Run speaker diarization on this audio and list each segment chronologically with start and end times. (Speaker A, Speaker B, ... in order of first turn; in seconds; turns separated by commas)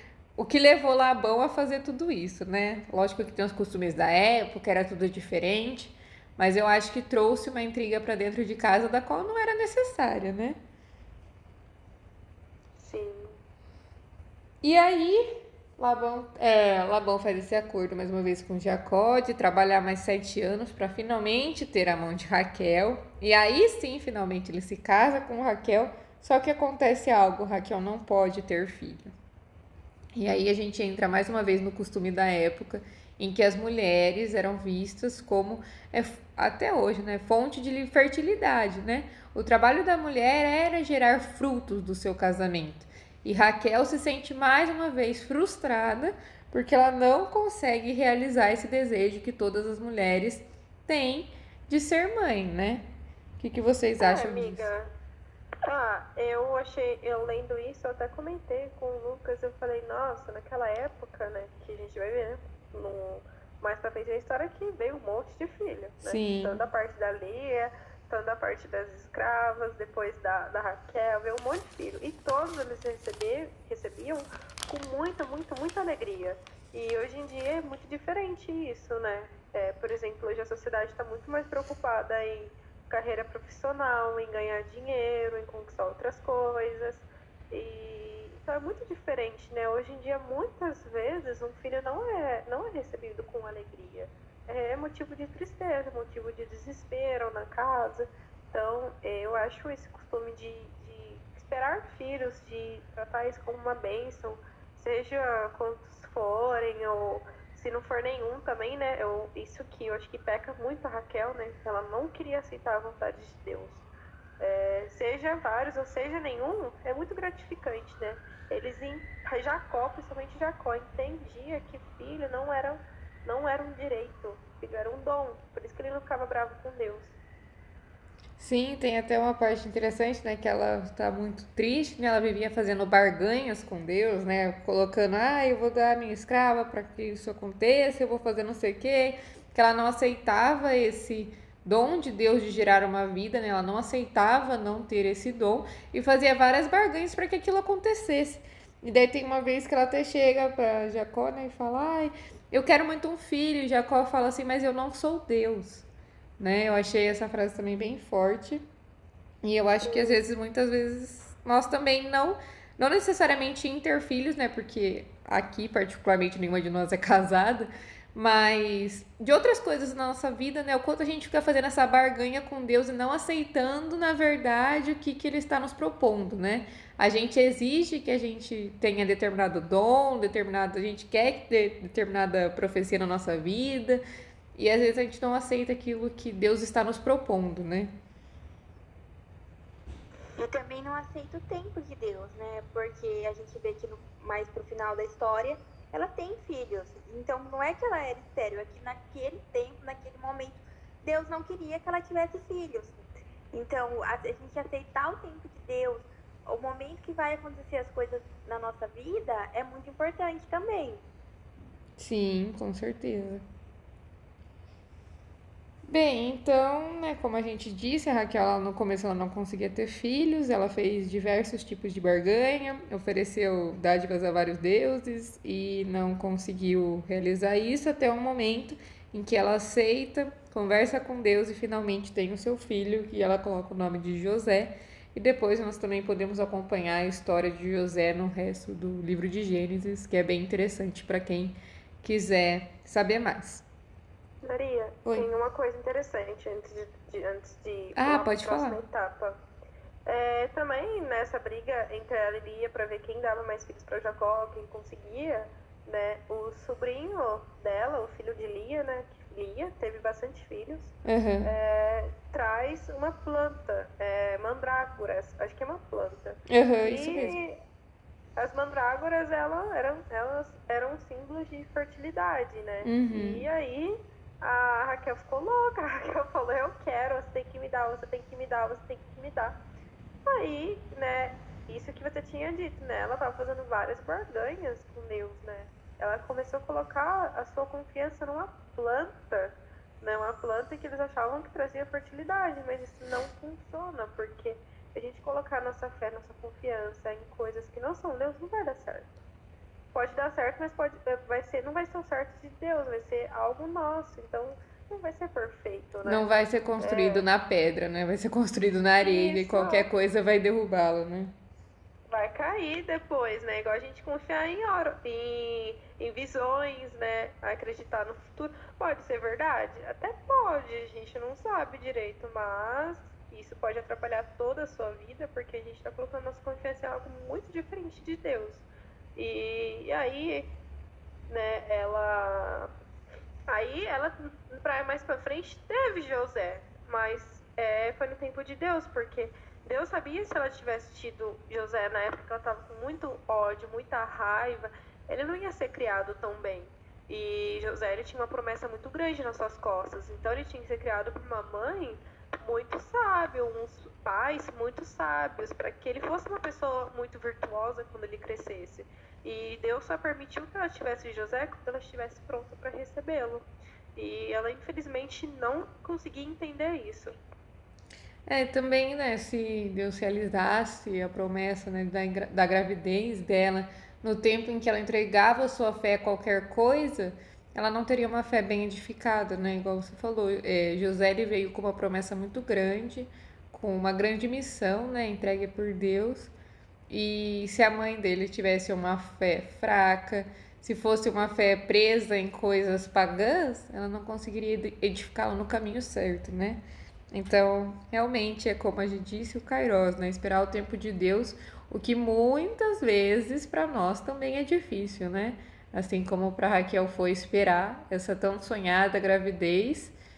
Speaker A: 0.4-10.6, Speaker B: 12.8-13.4, Speaker A: 14.6-29.1, Speaker A: 30.1-54.7, Speaker B: 54.0-54.9, Speaker B: 55.6-113.9, Speaker A: 66.0-66.6, Speaker B: 114.4-127.2, Speaker A: 128.4-155.9, Speaker A: 156.4-158.6, Speaker A: 159.4-184.0, Speaker B: 159.8-160.2, Speaker A: 184.6-188.0, Speaker C: 190.4-203.0, Speaker C: 203.5-211.0, Speaker A: 212.0-213.4, Speaker A: 215.9-243.7, Speaker B: 244.4-249.4, Speaker A: 245.1-245.3, Speaker A: 248.0-248.8, Speaker B: 250.1-267.6, Speaker A: 261.1-261.5, Speaker A: 266.5-267.4, Speaker B: 268.4-279.6, Speaker A: 272.8-273.4, Speaker B: 280.3-299.2, Speaker B: 299.9-306.3, Speaker A: 306.0-311.3, Speaker B: 306.8-307.2, Speaker B: 309.0-309.9, Speaker B: 312.1-328.6, Speaker B: 329.2-330.5, Speaker B: 331.3-332.7, Speaker B: 333.5-363.4, Speaker B: 364.0-367.2, Speaker A: 368.3-386.3, Speaker A: 386.9-410.0